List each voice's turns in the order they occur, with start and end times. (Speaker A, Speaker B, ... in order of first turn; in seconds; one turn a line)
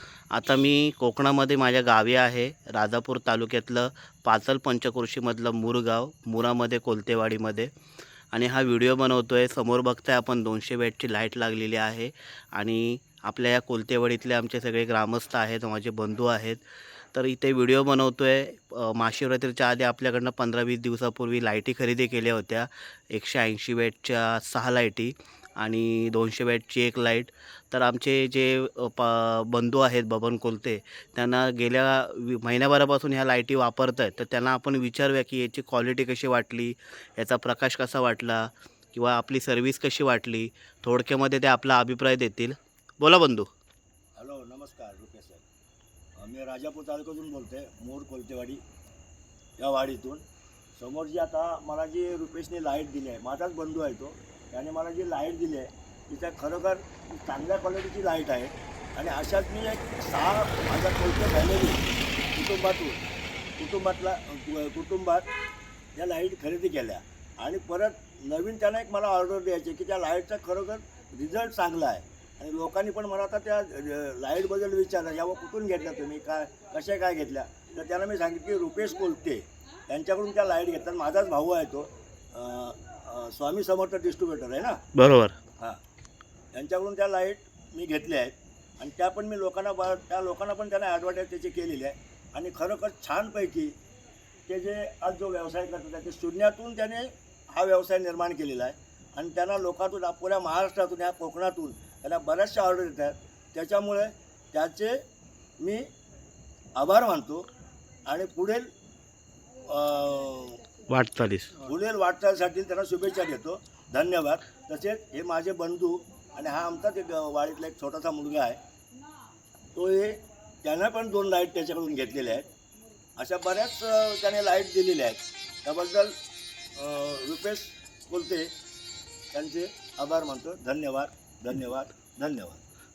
Speaker A: 0.3-7.7
Speaker A: 8.3-16.6
Speaker A: 17.1-43.5
Speaker B: 44.2-45.4
Speaker B: 46.2-48.6
Speaker B: 49.6-50.2
Speaker B: 50.8-61.8
Speaker B: 62.3-63.0
Speaker B: 63.6-65.3
Speaker B: 66.0-84.8
Speaker A: 85.0-85.4
Speaker B: 86.5-93.8
Speaker B: 94.5-105.0
Speaker B: 105.6-105.8
Speaker B: 106.8-107.5
Speaker B: 108.1-108.7
Speaker B: 109.6-110.6
Speaker A: 110.9-111.6
Speaker B: 111.6-118.6
Speaker B: 119.8-122.5
Speaker B: 123.2-126.2
Speaker B: 126.8-128.5
Speaker B: 129.3-132.6